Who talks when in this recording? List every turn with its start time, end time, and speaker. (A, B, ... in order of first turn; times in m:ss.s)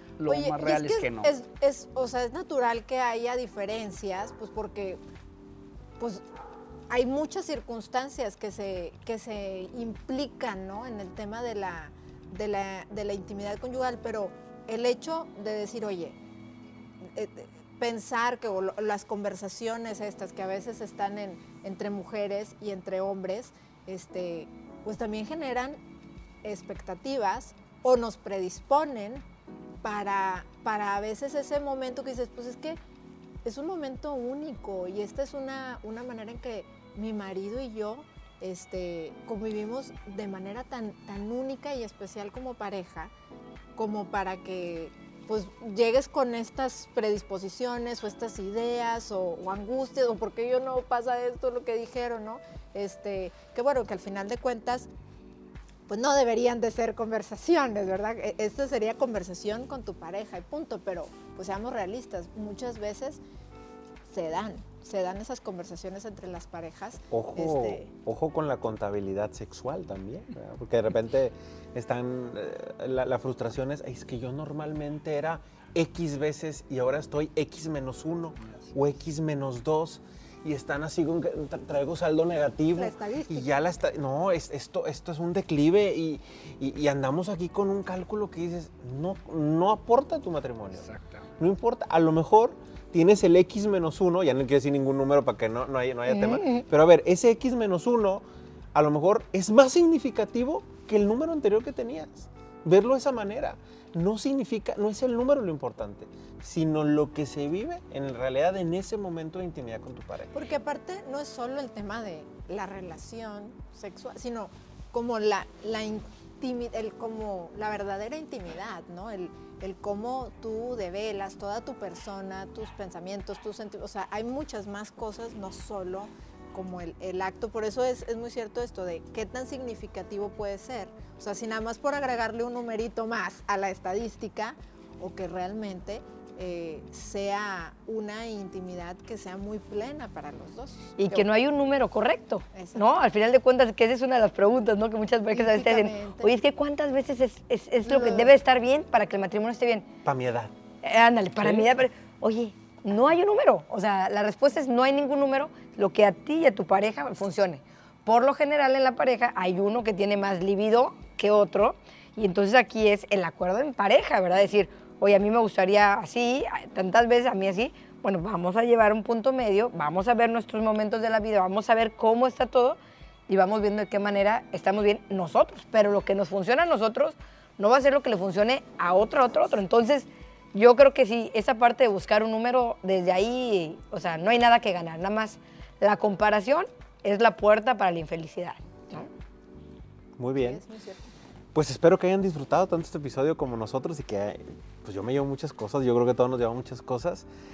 0:00.2-0:01.3 A
0:00.3-0:05.0 B
0:06.9-0:16.2 B
0:17.2-0:25.8 B
0:26.4-0:29.2 B
0:29.8-0:32.8 B
0:33.4-0:43.1 B
0:43.8-0:54.9 B
0:55.9-1:03.2 B
1:04.1-1:07.9 B
1:07.1-1:30.9 C
1:18.4-1:18.8 A
1:22.8-1:23.5 B
1:30.7-1:31.3 A
1:31.4-1:50.3 C
1:36.1-1:36.6 D
1:50.3-2:21.3 B
2:21.0-2:29.9 D
2:22.5-2:22.9 B
2:25.3-2:26.4 B
2:27.9-2:28.3 B
2:30.0-2:30.5 C
2:30.8-3:09.1 D
3:10.2-3:10.6 C
3:10.4-3:11.1 B
3:11.6-3:17.3 C